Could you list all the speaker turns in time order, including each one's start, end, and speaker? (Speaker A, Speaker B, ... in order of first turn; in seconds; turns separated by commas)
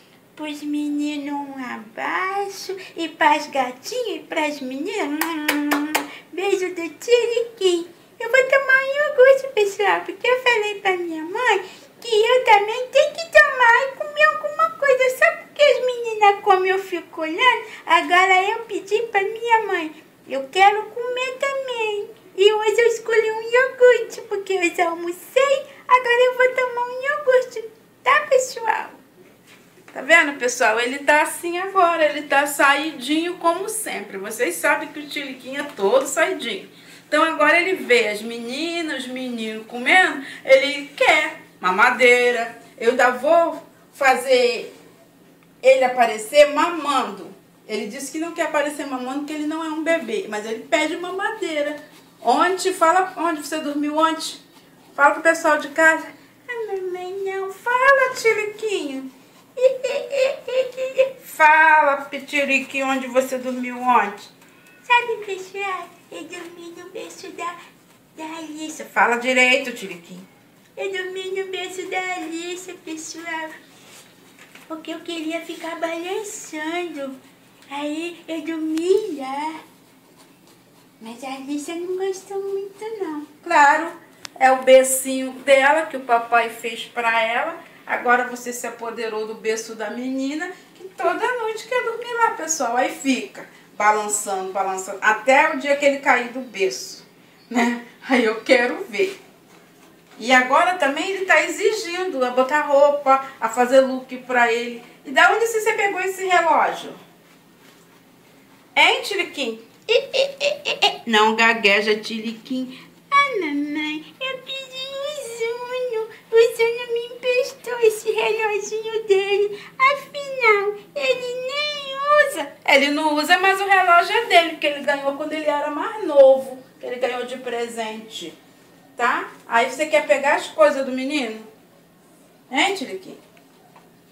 Speaker A: 0.3-29.0, Speaker A: 29.9-44.7, Speaker A: 45.6-54.4, Speaker A: 54.9-64.3, Speaker A: 64.8-67.5, Speaker A: 68.2-73.5, Speaker A: 74.7-77.2, Speaker A: 77.7-79.6, Speaker A: 81.0-99.2, Speaker A: 100.2-107.0, Speaker A: 108.7-128.3, Speaker A: 128.9-131.5, Speaker A: 132.5-133.2